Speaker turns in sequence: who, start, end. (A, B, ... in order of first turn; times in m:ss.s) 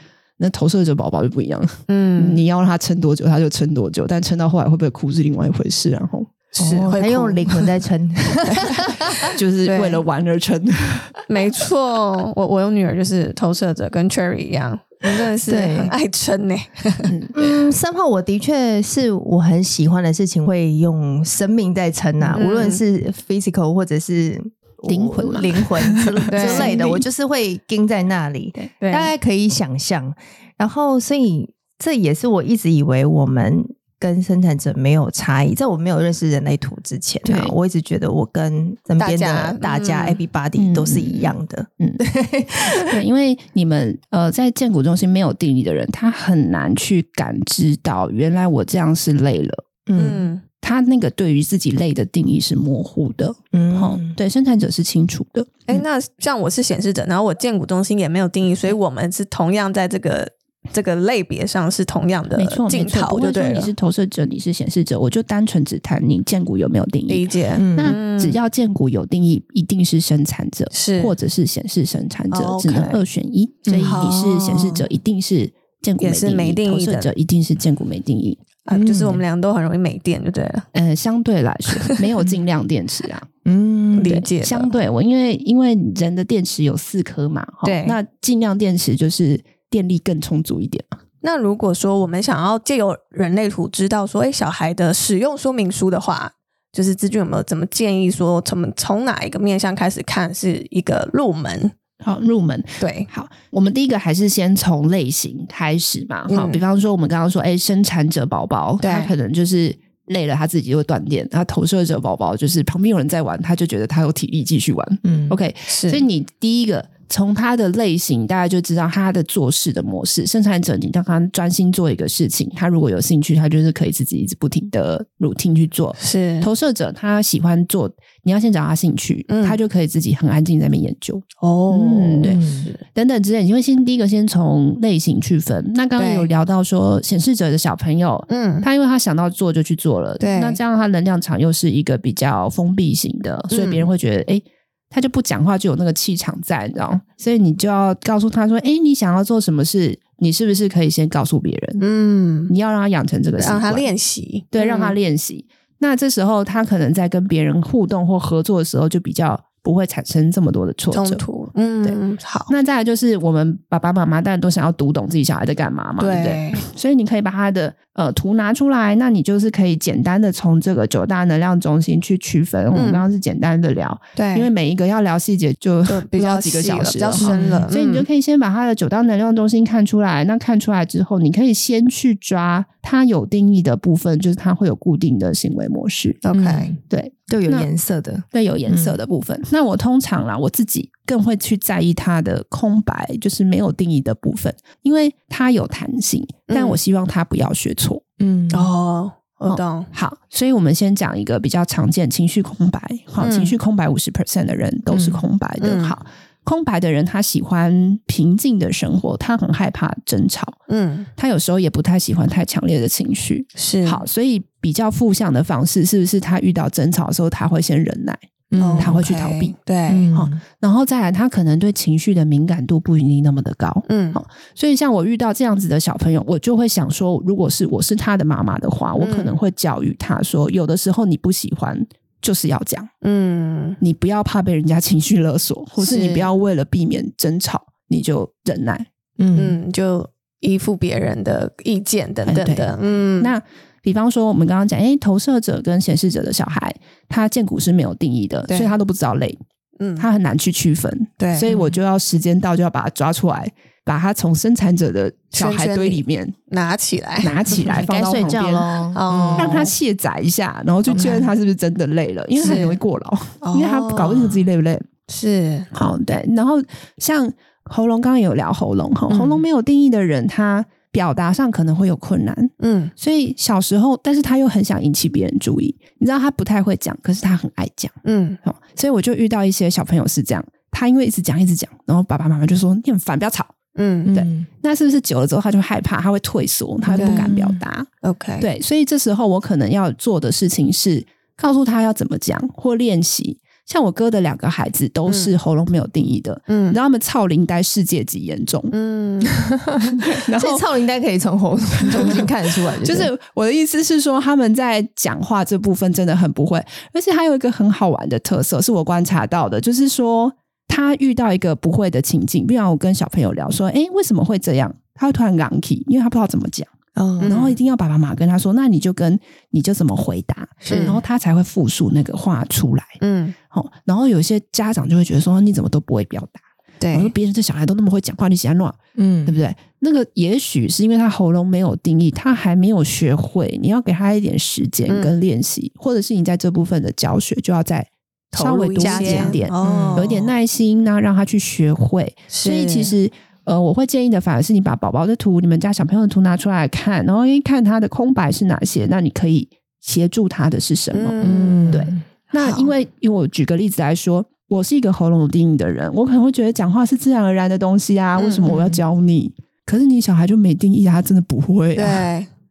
0:00.4-0:06.3 A
0:01.9-0:02.4 B
0:06.5-0:07.7 B
0:06.6-0:09.3 C
0:08.5-0:10.0 B
0:09.3-0:11.2 A
0:11.3-0:17.1 B
0:15.4-0:15.9 C
0:17.0-0:17.3 A
0:17.3-0:42.9 C
0:22.3-0:22.8 B
0:24.9-0:27.0 A
0:26.3-0:26.8 B
0:28.8-0:29.1 B
0:37.2-0:37.5 A
0:39.0-0:40.2 B
0:40.6-0:42.0 A
0:42.8-0:49.6 A
0:49.9-0:50.3 C
0:50.0-0:50.4 B
0:50.6-0:55.8 A
0:53.5-0:54.2 C
0:55.7-1:03.7 B
1:02.4-1:18.4 A
1:07.1-1:08.4 B
1:07.6-1:08.0 C
1:10.7-1:11.1 B
1:12.3-1:13.0 B
1:13.6-1:14.0 C
1:13.8-1:14.8 B
1:16.0-1:17.1 B
1:18.6-1:20.6 B
1:18.7-1:19.2 C
1:20.7-1:23.3 A
1:21.7-1:22.0 B
1:23.4-1:24.2 C
1:24.0-1:24.7 B
1:24.0-1:31.0 A
1:27.6-1:28.0 B
1:31.2-1:41.8 B
1:42.0-2:12.4 A
1:42.8-1:43.1 B
1:46.3-1:46.6 B
1:48.8-1:49.1 B
1:55.0-1:55.4 C
1:55.7-1:56.0 B
2:06.0-2:06.5 B
2:09.3-2:09.6 B
2:11.4-2:12.8 B
2:12.2-2:12.7 C
2:12.9-2:31.8 A
2:16.0-2:16.3 B
2:18.3-2:18.6 B
2:20.2-2:20.6 B
2:23.5-2:23.9 B
2:31.8-2:32.5 B
2:32.5-2:33.9 A
2:33.4-2:35.0 B
2:34.5-2:41.2 A
2:40.9-2:42.5 B
2:41.8-3:06.2 A
2:46.0-2:46.6 B
2:52.7-2:53.0 B
2:54.2-2:54.5 B
2:55.8-2:58.1 B
2:57.2-2:57.6 C
3:06.2-3:06.7 B
3:06.4-3:06.8 C
3:06.8-3:07.7 A
3:07.3-3:09.0 C
3:08.3-3:18.0 A
3:16.5-3:16.8 B
3:18.2-3:18.7 C
3:18.5-3:19.9 B
3:19.5-3:30.6 A
3:23.2-3:23.5 B
3:24.9-3:25.2 C
3:25.6-3:25.9 B
3:30.7-3:31.1 B
3:31.2-3:38.2 A
3:33.6-3:34.0 B
3:38.5-3:39.0 C
3:38.6-3:40.1 B
3:38.8-3:39.5 A
3:39.9-3:40.4 C
3:40.1-3:52.9 A
3:43.8-3:44.2 B
3:49.0-3:49.4 B
3:53.0-3:53.8 B
3:53.8-3:58.9 A
3:55.8-3:56.3 B
3:59.2-3:59.6 C
3:59.4-4:03.3 B
4:02.2-4:09.4 A
4:08.5-4:08.7 B
4:09.8-4:10.0 B
4:10.0-4:16.4 A
4:11.2-4:11.5 B
4:11.5-4:11.8 C
4:15.3-4:17.4 B
4:17.2-4:18.7 A
4:17.5-4:19.7 C
4:18.9-4:19.7 B
4:19.4-4:24.9 A
4:20.9-4:21.2 B
4:20.9-4:21.3 C
4:22.4-4:22.8 B
4:22.4-4:22.8 C
4:23.4-4:24.5 B
4:25.1-4:25.8 B
4:25.7-4:43.5 A
4:29.1-4:29.4 B
4:32.6-4:32.9 B
4:38.0-4:38.4 B
4:43.8-4:44.1 B
4:44.0-4:44.5 C
4:44.1-4:47.9 A
4:46.9-4:47.6 C
4:47.0-4:47.3 B
4:48.0-4:48.5 B
4:48.4-4:58.7 A
4:55.1-4:55.3 B
4:56.5-4:56.8 B
4:58.7-4:59.4 B
4:59.5-5:03.1 C
5:00.2-5:00.6 A
5:01.9-5:02.2 A
5:02.8-5:16.7 A
5:17.0-5:17.4 C
5:17.2-5:17.6 B
5:17.2-5:23.0 A
5:20.6-5:21.0 B
5:23.0-5:23.4 B
5:23.5-6:02.1 A
5:26.8-5:27.1 B
5:29.0-5:29.4 C
5:34.9-5:35.2 B
5:38.3-5:40.2 B
5:38.8-5:40.2 C
5:42.3-5:42.9 B
5:50.9-5:51.8 B
5:51.2-5:52.0 C
5:58.2-5:58.7 B
6:01.8-6:02.3 B